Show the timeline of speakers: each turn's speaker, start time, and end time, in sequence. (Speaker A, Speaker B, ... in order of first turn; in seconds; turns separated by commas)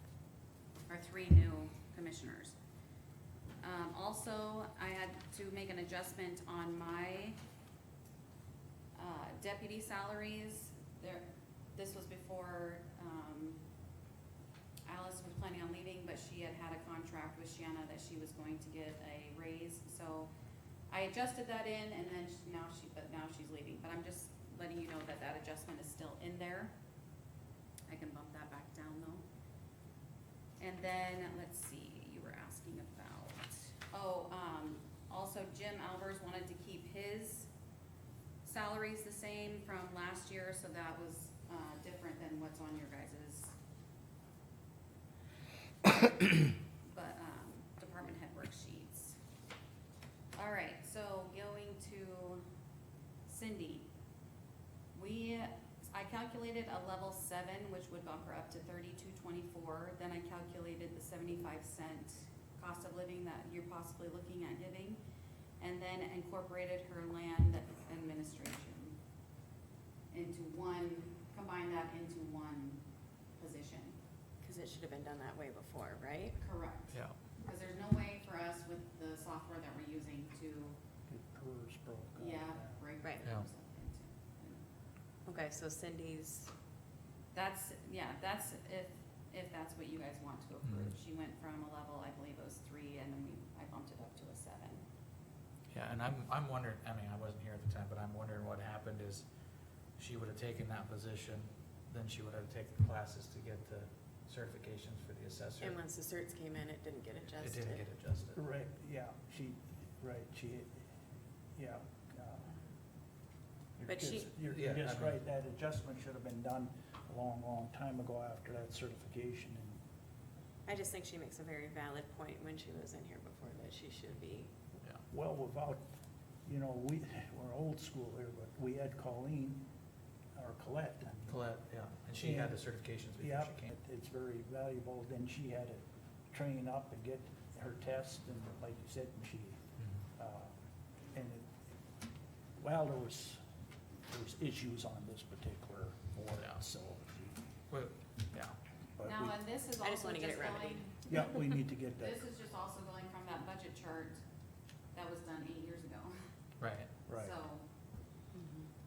Speaker A: 0.9-2.5, Speaker A: 3.6-7.4, Speaker A: 8.9-13.6, Speaker A: 14.9-20.3, Speaker A: 20.9-26.8, Speaker A: 27.9-29.2, Speaker A: 30.6-37.5, Speaker A: 38.4-43.6, Speaker A: 46.8-49.2, Speaker A: 50.4-52.5, Speaker A: 53.3-53.9, Speaker A: 54.9-65.0, Speaker A: 65.6-69.0, Speaker A: 70.1-72.8, Speaker A: 73.4-74.0, Speaker B: 74.4-76.4, Speaker A: 76.4-80.8, Speaker C: 76.9-77.2, Speaker D: 81.1-82.8, Speaker A: 82.2-84.7, Speaker B: 85.3-86.5, Speaker A: 87.3-94.8, Speaker C: 90.6-90.9, Speaker C: 95.7-99.2, Speaker C: 100.0-105.8, Speaker B: 105.6-107.9, Speaker C: 107.3-108.4, Speaker D: 108.3-110.8, Speaker D: 111.6-112.6, Speaker D: 113.8-119.8, Speaker B: 113.9-114.3, Speaker C: 114.4-115.2, Speaker B: 120.7-124.5, Speaker D: 125.1-125.8, Speaker D: 126.5-129.6, Speaker D: 130.3-131.4, Speaker C: 131.3-133.7, Speaker D: 132.1-132.6, Speaker D: 133.2-139.6, Speaker D: 140.2-140.6, Speaker D: 141.1-141.6, Speaker D: 142.6-143.4, Speaker D: 144.1-147.4, Speaker C: 146.4-146.6, Speaker C: 147.7-148.6, Speaker D: 149.0-149.4, Speaker A: 149.0-151.1, Speaker B: 149.8-151.1, Speaker D: 151.1-152.2, Speaker A: 152.0-154.2, Speaker A: 154.9-156.2, Speaker C: 156.6-156.9, Speaker D: 157.1-157.3, Speaker A: 157.1-157.7, Speaker B: 158.3-158.7